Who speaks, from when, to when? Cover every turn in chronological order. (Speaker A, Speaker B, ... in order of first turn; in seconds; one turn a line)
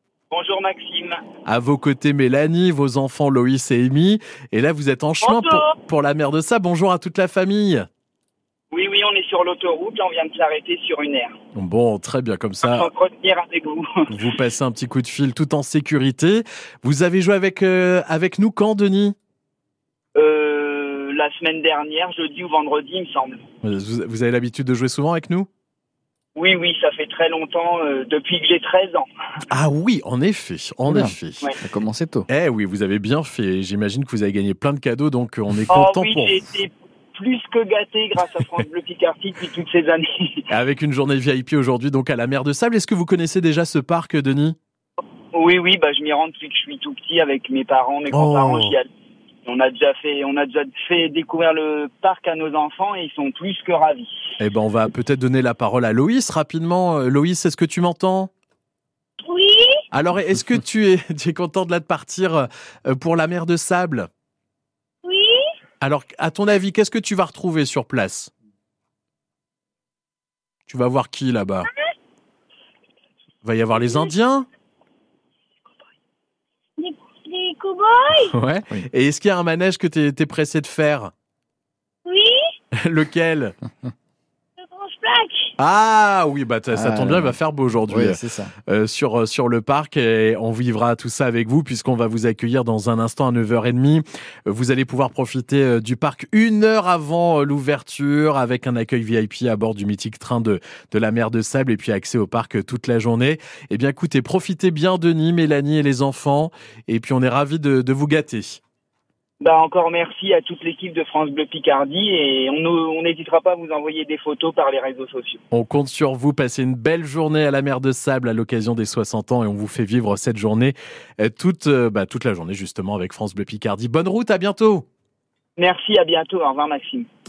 Speaker A: 0.3-1.2
Speaker B: 1.4-7.9
Speaker A: 5.2-5.7
Speaker A: 8.7-11.3
Speaker B: 11.6-12.9
Speaker A: 12.6-14.1
Speaker B: 14.1-19.1
Speaker A: 20.2-23.4
Speaker B: 23.6-25.5
Speaker A: 26.4-29.1
Speaker B: 29.5-31.5
Speaker C: 30.9-32.3
Speaker B: 32.3-36.4
Speaker A: 35.7-40.5
Speaker B: 38.3-38.6
Speaker B: 40.5-44.6
Speaker A: 45.3-48.9
Speaker B: 48.1-48.8
Speaker A: 49.5-54.1
Speaker B: 54.4-58.3
Speaker D: 59.2-59.8
Speaker B: 59.9-64.1
Speaker D: 65.0-65.4
Speaker B: 65.8-68.3
Speaker B: 70.7-71.7
Speaker B: 73.4-74.5
Speaker D: 76.8-78.3
Speaker B: 78.1-81.1
Speaker D: 82.1-82.4
Speaker B: 82.7-83.6
Speaker D: 84.6-85.5
Speaker B: 85.6-108.6
Speaker C: 86.7-87.4
Speaker C: 87.9-88.5
Speaker A: 109.4-115.4
Speaker B: 115.5-124.9
Speaker A: 125.6-127.1